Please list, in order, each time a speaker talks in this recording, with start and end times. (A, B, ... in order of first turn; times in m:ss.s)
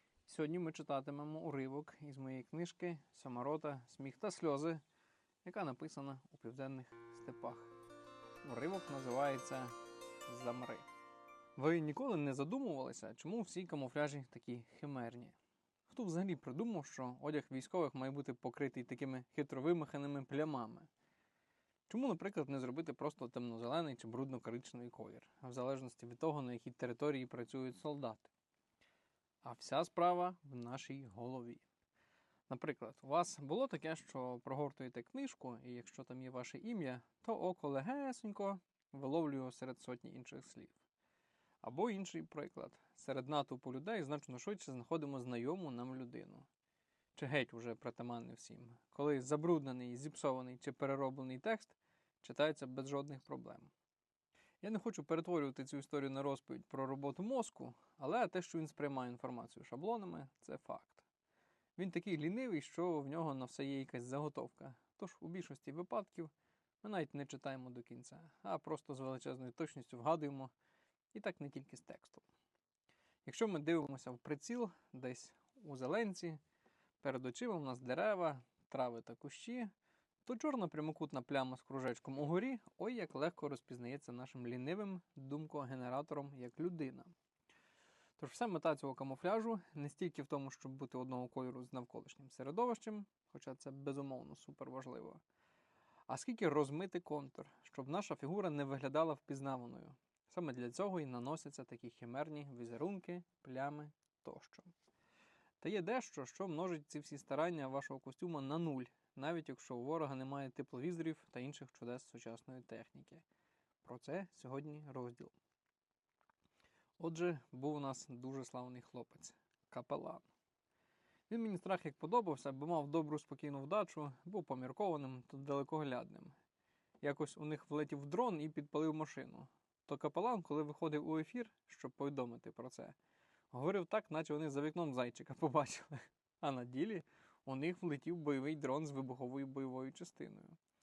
0:00.3-0:04.8 A
0:05.4-0:07.7 A
0:08.4-0:09.8 A
0:10.3-0:10.9 A
0:11.6-0:15.4 A
0:15.9-0:20.9 A
0:21.9-0:28.3 A
0:29.4-0:31.6 A
0:32.5-0:40.8 A
0:41.6-0:46.5 A
0:47.2-0:53.7 A
0:54.6-1:01.0 A
1:01.8-1:10.5 A
1:11.1-1:12.3 A
1:13.2-1:16.4 A
1:17.0-1:19.7 A
1:20.2-1:27.1 A
1:28.2-1:35.2 A
1:36.1-1:44.7 A
1:45.6-1:53.2 A
1:53.8-1:55.4 A
1:57.0-2:00.3 A
2:01.3-2:06.3 A
2:07.0-2:13.0 A
2:13.5-2:20.6 A